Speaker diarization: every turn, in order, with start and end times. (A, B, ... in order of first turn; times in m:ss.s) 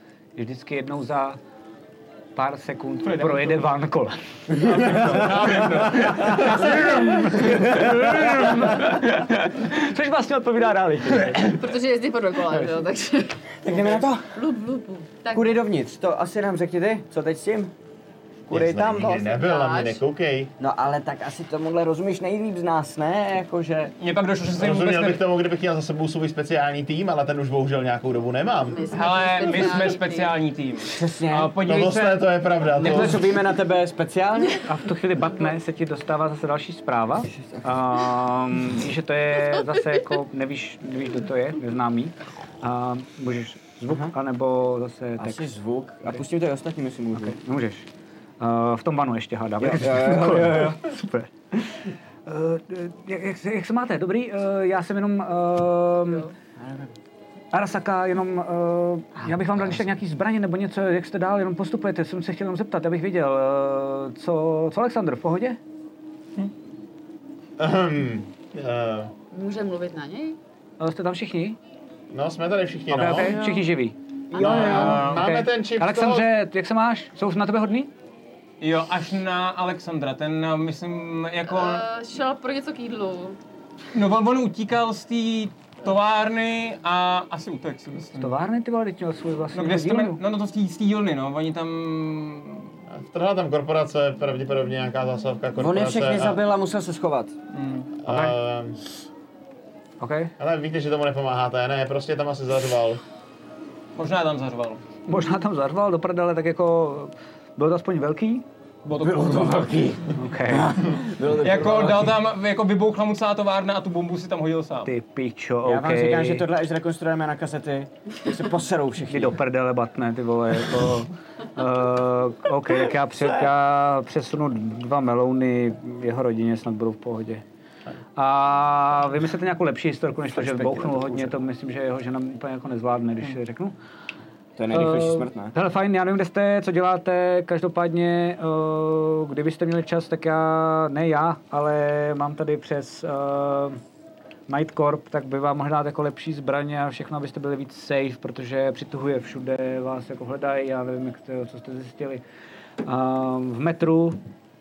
0:00.4-0:01.4 A
0:02.4-0:11.6 A
0:03.0-0:03.6 B
0:04.6-0:07.4 B
0:11.4-0:13.4 C
0:13.6-0:14.2 D
0:13.7-0:14.1 B
0:14.3-0:15.5 C
0:15.3-0:17.7 D
0:18.5-0:19.4 D
0:18.5-0:20.5 E
0:19.2-0:20.0 C
0:20.6-0:23.9 D
0:24.0-0:25.2 B
0:24.6-0:28.9 E
0:28.7-0:30.4 C
0:28.9-0:33.2 B
0:30.9-0:31.6 D
0:31.6-0:33.2 E
0:32.8-0:34.6 D
0:34.6-0:45.4 A
0:37.3-0:37.9 D
0:43.9-0:44.1 D
0:45.2-0:47.4 D
0:47.2-0:47.9 A
0:48.4-0:56.3 A
0:49.6-0:50.8 D
0:56.6-0:56.9 D
0:57.5-1:05.6 A
0:59.5-0:59.8 D
1:07.6-1:09.1 E
1:09.3-1:10.4 C
1:10.8-1:11.6 A
1:12.1-1:13.4 E
1:12.9-1:17.9 A
1:14.3-1:15.0 D
1:14.4-1:16.3 E
1:14.4-1:15.3 B
1:18.6-1:21.8 B
1:21.5-1:23.4 C
1:23.9-1:28.3 B
1:28.1-1:30.2 A
1:29.5-1:32.7 B
1:32.9-1:36.4 E
1:35.6-1:37.4 D
1:37.5-1:37.9 B
1:38.0-1:38.8 E
1:38.1-1:38.4 A
1:40.0-1:40.3 A
1:40.4-1:43.0 E
1:44.0-1:44.8 B
1:45.1-1:48.4 A
1:48.8-1:49.9 B
1:49.0-1:52.2 D
1:50.2-1:50.7 A
1:51.4-1:54.9 B
1:54.8-1:56.5 A
1:55.6-1:59.4 D
1:59.1-2:07.4 A
2:03.1-2:03.5 D
2:08.2-2:13.8 A
2:10.3-2:11.4 D
2:14.6-2:15.5 D
2:14.7-2:23.8 A
2:24.5-2:32.2 A
2:32.8-2:34.2 A